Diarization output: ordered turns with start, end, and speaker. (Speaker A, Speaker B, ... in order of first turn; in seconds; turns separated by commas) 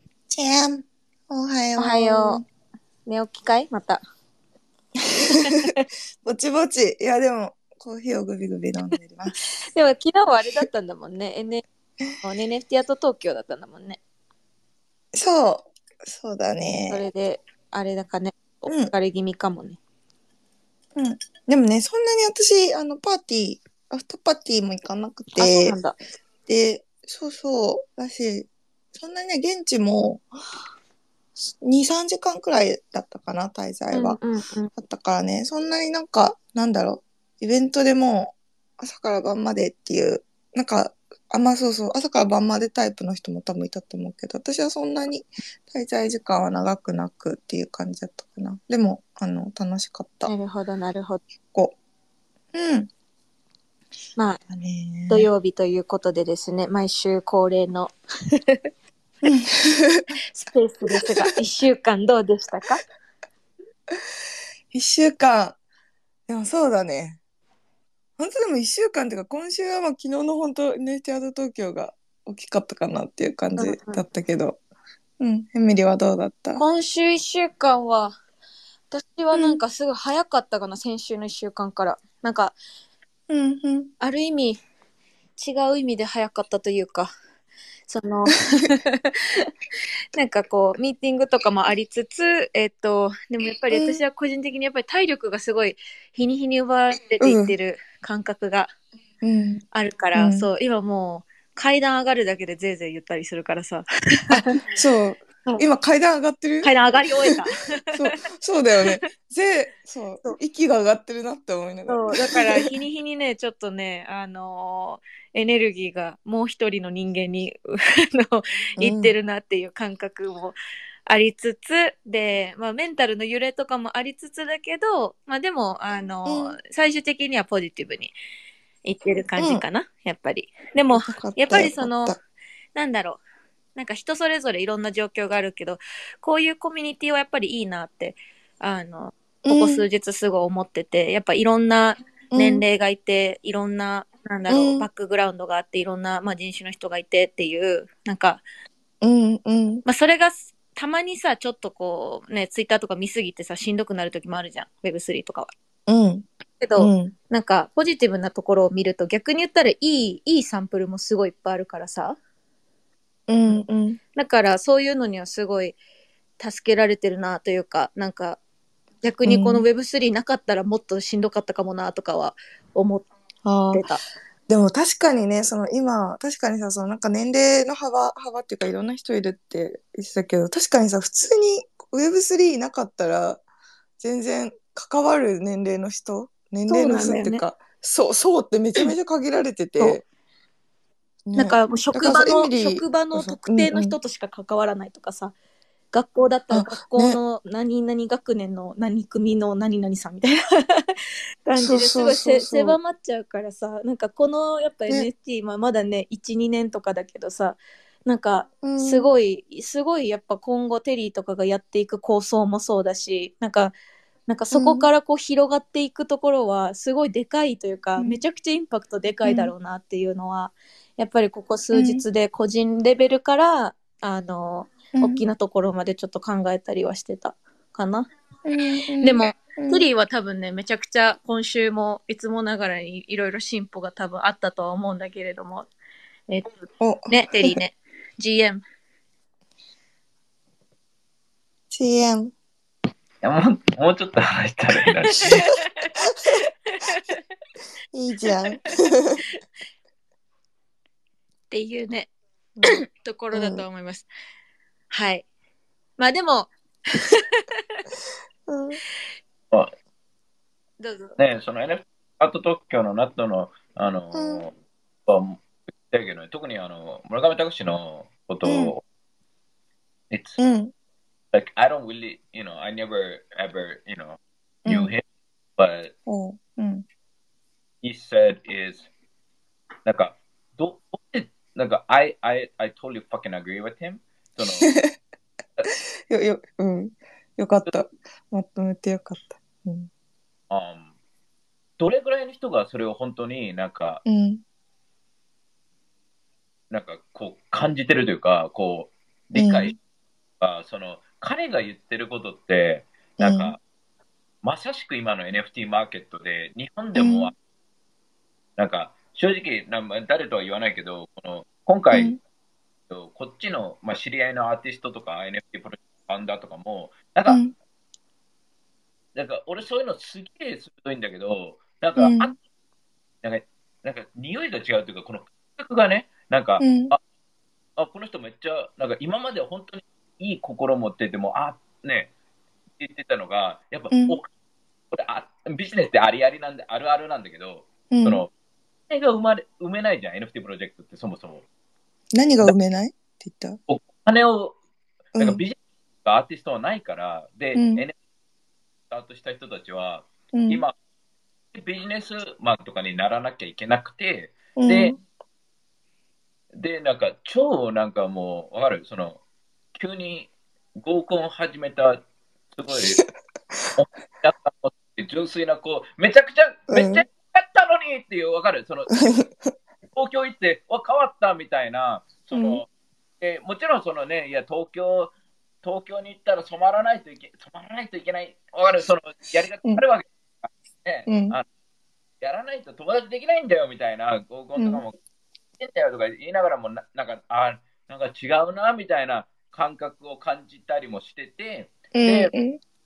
Speaker A: 0.3-2.5, Speaker B: 1.8-2.4, Speaker B: 3.1-4.0, Speaker B: 5.3-5.8, Speaker A: 6.2-9.3, Speaker B: 9.7-11.6, Speaker B: 12.2-14.0, Speaker A: 15.1-17.0, Speaker B: 16.9-19.8, Speaker A: 21.0-25.8, Speaker B: 25.4-26.0, Speaker A: 26.5-30.3, Speaker A: 31.5-34.2, Speaker B: 33.9-34.7, Speaker A: 34.8-50.3, Speaker B: 50.3-51.2, Speaker A: 52.5-52.9, Speaker B: 54.2-54.4, Speaker A: 54.5-55.3, Speaker B: 55.1-57.9, Speaker A: 59.3-60.1, Speaker B: 60.3-62.9, Speaker A: 64.7-65.6, Speaker A: 66.3-67.2, Speaker A: 68.2-74.6, Speaker B: 73.6-74.0, Speaker A: 75.2-76.6, Speaker B: 76.5-78.2, Speaker B: 78.9-82.6, Speaker A: 79.3-79.6, Speaker A: 83.3-83.9, Speaker B: 84.0-84.6, Speaker B: 85.4-87.1, Speaker B: 87.9-89.5, Speaker B: 90.2-98.7, Speaker A: 93.7-94.0, Speaker A: 97.2-97.5, Speaker A: 99.2-99.6, Speaker B: 99.7-103.9, Speaker A: 100.2-100.5, Speaker A: 104.3-106.7, Speaker B: 106.6-107.7, Speaker A: 107.9-112.8, Speaker B: 111.9-120.6, Speaker A: 118.8-119.1, Speaker B: 121.1-128.1, Speaker A: 126.2-126.6, Speaker B: 128.8-132.2, Speaker A: 131.1-132.2, Speaker B: 132.8-133.2, Speaker B: 133.8-148.4, Speaker A: 139.4-139.8, Speaker A: 142.3-142.6, Speaker A: 144.5-144.9, Speaker A: 149.0-149.8, Speaker B: 149.8-155.5, Speaker A: 155.9-156.3, Speaker B: 156.6-162.2, Speaker A: 156.8-157.1, Speaker A: 163.3-164.0, Speaker B: 164.2-165.8, Speaker B: 166.4-168.4, Speaker B: 169.0-173.1, Speaker A: 169.3-169.7, Speaker A: 173.4-173.8, Speaker B: 173.7-174.0, Speaker A: 174.5-183.4, Speaker A: 184.0-190.1, Speaker B: 186.7-187.4, Speaker A: 191.3-194.0, Speaker B: 191.4-195.3, Speaker B: 195.9-200.9, Speaker A: 196.5-197.2, Speaker B: 201.5-213.8, Speaker A: 201.6-202.8, Speaker A: 208.6-209.1, Speaker B: 214.3-228.1, Speaker A: 214.5-214.9, Speaker A: 219.2-219.5, Speaker A: 221.7-222.0, Speaker A: 224.9-225.2, Speaker A: 228.5-229.8, Speaker B: 229.0-235.7, Speaker B: 236.3-238.6, Speaker A: 236.8-237.6, Speaker A: 241.7-242.3, Speaker C: 243.2-245.5, Speaker B: 245.2-247.2, Speaker A: 247.9-249.2, Speaker B: 251.5-252.1, Speaker B: 252.6-254.1, Speaker A: 253.3-253.6, Speaker B: 254.9-255.2, Speaker B: 256.0-257.4, Speaker A: 258.5-258.8, Speaker B: 260.8-261.2, Speaker C: 261.2-264.5, Speaker A: 264.1-264.4, Speaker C: 265.1-268.8, Speaker A: 268.4-268.7, Speaker C: 270.1-270.4, Speaker A: 270.4-270.7, Speaker C: 271.3-275.0, Speaker A: 274.7-274.9, Speaker C: 275.6-275.9, Speaker A: 276.1-276.9, Speaker C: 277.8-278.9, Speaker C: 279.9-284.7, Speaker A: 284.4-284.9, Speaker A: 286.1-289.9, Speaker C: 290.5-290.9, Speaker C: 291.8-294.0, Speaker A: 294.1-294.4, Speaker C: 296.7-299.8, Speaker A: 299.4-299.7, Speaker C: 300.4-303.6, Speaker A: 303.2-303.6, Speaker C: 304.4-307.4, Speaker A: 306.9-307.3, Speaker C: 308.6-312.2, Speaker A: 311.9-312.2, Speaker C: 312.9-317.4, Speaker A: 317.3-317.5, Speaker C: 319.1-322.4, Speaker A: 322.0-322.3, Speaker C: 323.2-327.0, Speaker A: 326.6-326.9, Speaker C: 327.8-332.1, Speaker C: 332.8-334.3, Speaker A: 333.9-334.2, Speaker C: 334.9-338.3, Speaker A: 337.9-338.2, Speaker C: 338.9-341.4, Speaker A: 342.1-343.6, Speaker C: 343.7-344.6, Speaker A: 345.1-345.4, Speaker C: 345.2-347.9, Speaker A: 347.6-347.8, Speaker C: 348.9-350.7, Speaker A: 350.3-350.6, Speaker C: 351.5-354.9, Speaker A: 354.6-355.0, Speaker C: 356.5-359.2, Speaker C: 359.8-363.0, Speaker A: 362.8-363.0, Speaker C: 363.8-369.1, Speaker A: 366.7-367.0, Speaker A: 369.0-369.5, Speaker C: 369.9-372.7, Speaker A: 372.3-372.6, Speaker C: 373.2-375.1, Speaker C: 375.6-381.4, Speaker A: 381.1-381.4, Speaker C: 382.2-385.0, Speaker A: 384.6-384.8, Speaker C: 385.6-392.3, Speaker A: 391.9-392.6